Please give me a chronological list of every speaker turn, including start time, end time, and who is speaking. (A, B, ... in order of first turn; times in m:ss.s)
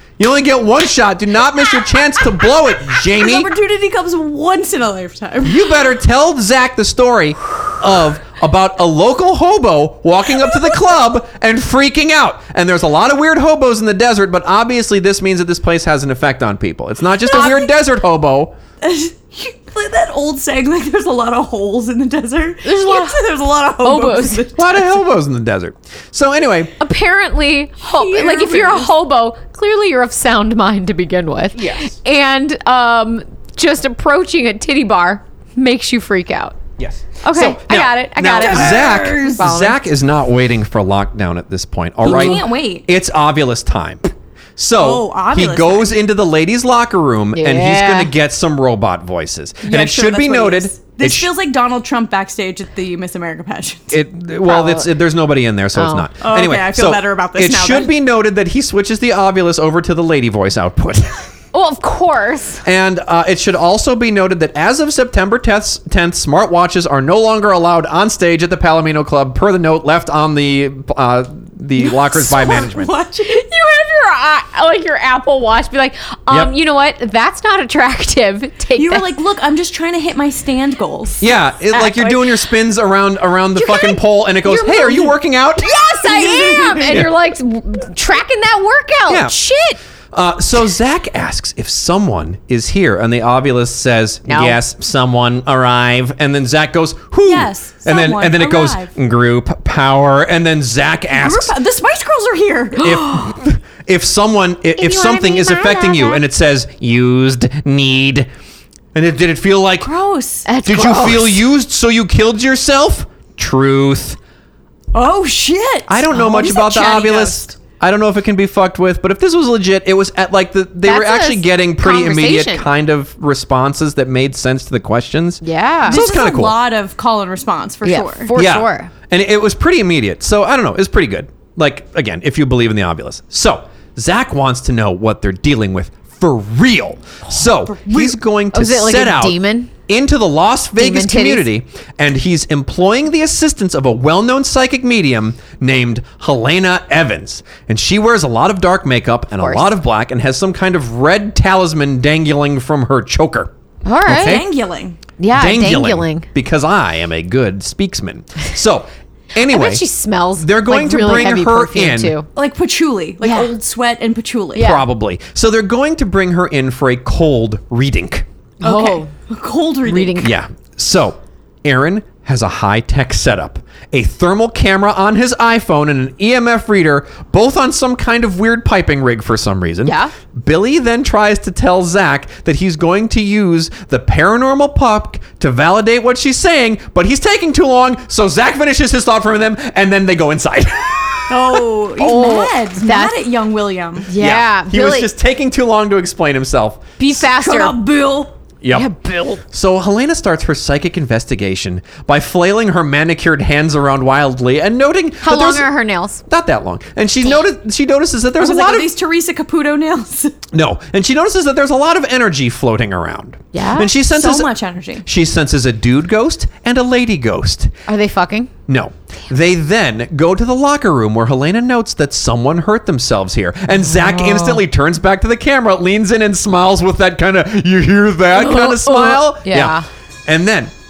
0:00.2-0:03.5 A
0:03.1-0:05.6 B
0:05.4-0:18.5 A
0:17.2-0:17.7 B
0:18.8-0:24.8 B
0:22.6-0:23.2 C
0:23.8-0:24.5 C
0:24.6-0:26.8 A
0:26.8-0:36.6 C
0:27.8-0:28.9 B
0:31.6-0:31.9 A
0:36.8-0:51.3 A
0:37.2-0:39.8 C
0:38.4-0:39.5 B
0:42.0-0:42.8 B
0:42.0-0:42.4 C
0:44.8-0:46.0 B
0:47.3-0:48.1 C
0:49.6-0:54.0 B
0:53.9-1:01.2 A
0:54.4-0:54.9 C
0:55.7-0:56.1 C
0:56.2-0:57.9 B
1:01.5-1:02.6 C
1:02.6-1:12.9 A
1:11.8-1:13.4 B
1:13.2-1:19.1 C
1:18.8-1:21.3 B
1:21.2-1:25.7 A
1:21.7-1:22.2 C
1:23.6-1:29.8 C
1:25.9-1:27.0 B
1:29.1-1:29.4 A
1:30.1-1:41.5 A
1:34.3-1:34.6 C
1:37.2-1:38.9 B
1:41.1-1:43.3 B
1:42.8-1:48.3 A
1:44.8-1:46.2 C
1:48.9-1:49.9 A
1:49.8-1:50.5 B
1:50.4-1:51.4 C
1:50.6-1:54.2 A
1:54.9-1:57.5 B
1:55.9-2:06.6 A
2:00.8-2:02.7 C
2:05.4-2:06.0 C
2:05.9-2:08.3 B
2:07.8-2:08.9 C
2:08.3-2:33.5 A
2:17.3-2:18.2 B
2:18.5-2:19.7 C
2:20.8-2:21.5 C
2:29.4-2:29.7 C
2:33.8-2:34.4 C
2:34.0-2:34.5 A
2:34.1-2:35.0 B
2:35.2-2:36.3 C
2:35.3-2:39.8 A
2:39.4-2:42.3 C
2:40.4-2:42.2 A
2:42.3-2:44.8 B
2:43.2-2:43.5 C
2:44.5-2:44.8 C
2:44.6-2:48.2 A
2:48.6-2:49.1 C
2:48.6-2:50.3 B
2:49.8-2:50.3 C
2:50.2-3:11.6 A
2:59.8-3:00.1 C
3:11.3-3:14.1 B
3:12.0-3:13.2 C
3:14.1-3:15.1 C
3:14.1-3:16.9 A
3:17.0-3:17.8 C
3:17.2-3:18.3 B
3:18.6-3:18.9 A
3:18.7-3:19.4 C
3:19.4-3:25.7 A
3:25.2-3:26.2 C
3:26.3-3:28.9 A
3:28.4-3:30.3 B
3:30.5-3:34.5 A
3:33.5-3:33.9 C
3:34.1-3:35.0 B
3:35.0-3:37.7 A
3:37.9-3:38.5 C
3:38.7-3:50.7 A
3:44.0-3:44.6 C
3:48.3-3:49.8 C